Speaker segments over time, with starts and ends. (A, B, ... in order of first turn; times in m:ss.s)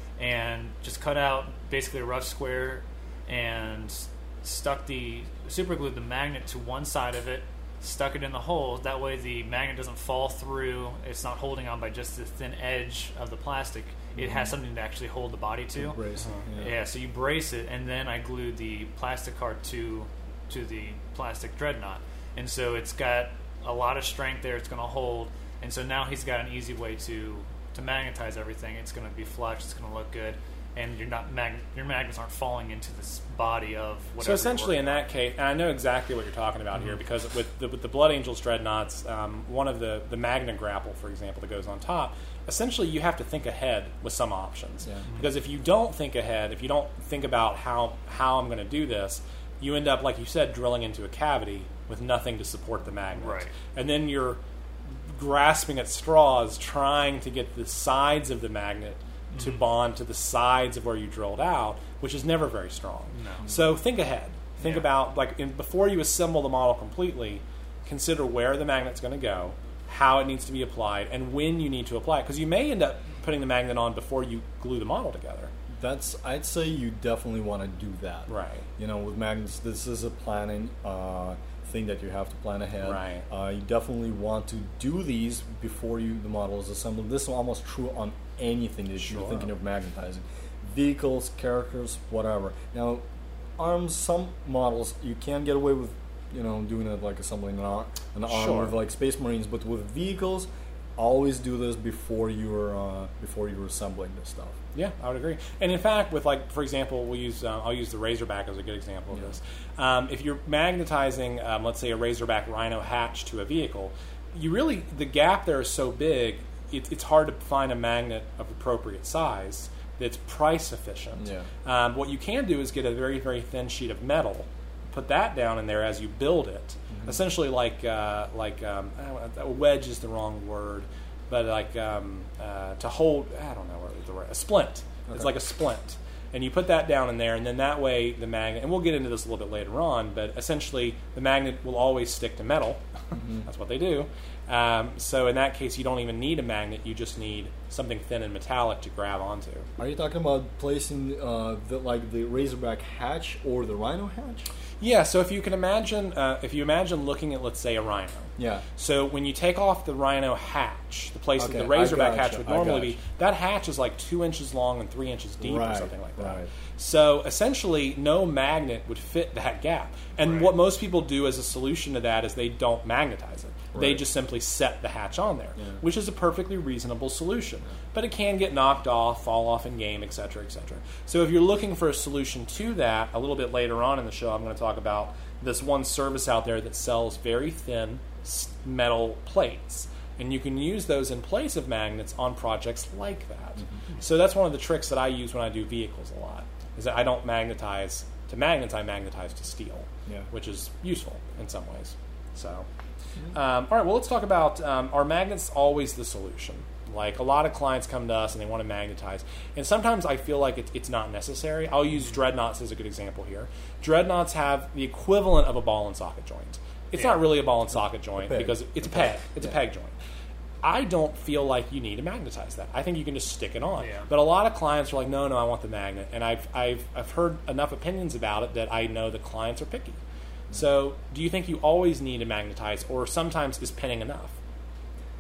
0:00.2-0:16.0 A
0:14.2-0:14.6 B
0:15.8-0:16.7 B
0:16.6-0:35.0 A
0:34.2-0:54.4 C
0:53.1-0:53.5 A
0:55.1-1:15.5 C
0:59.3-0:59.6 A
1:03.1-1:03.4 A
1:04.6-1:04.9 A
1:15.7-1:33.0 B
1:18.3-1:18.7 C
1:22.8-1:23.3 C
1:29.0-1:29.5 C
1:33.6-1:44.6 B
1:38.3-1:38.7 C
1:44.7-2:29.7 C
2:01.2-2:01.5 B
2:06.9-2:07.2 B
2:23.1-2:23.5 B
2:29.8-2:34.5 B
2:34.8-3:22.7 C
2:38.4-2:38.6 B
2:41.4-2:43.0 B
2:45.4-2:46.5 B
2:50.2-2:50.5 A
2:53.7-2:54.0 B
2:55.6-2:55.8 B
3:23.3-3:40.0 C
3:37.0-3:37.2 A
3:38.2-3:39.5 B
3:40.6-3:50.0 C
3:43.8-3:44.1 A
3:50.5-3:54.4 C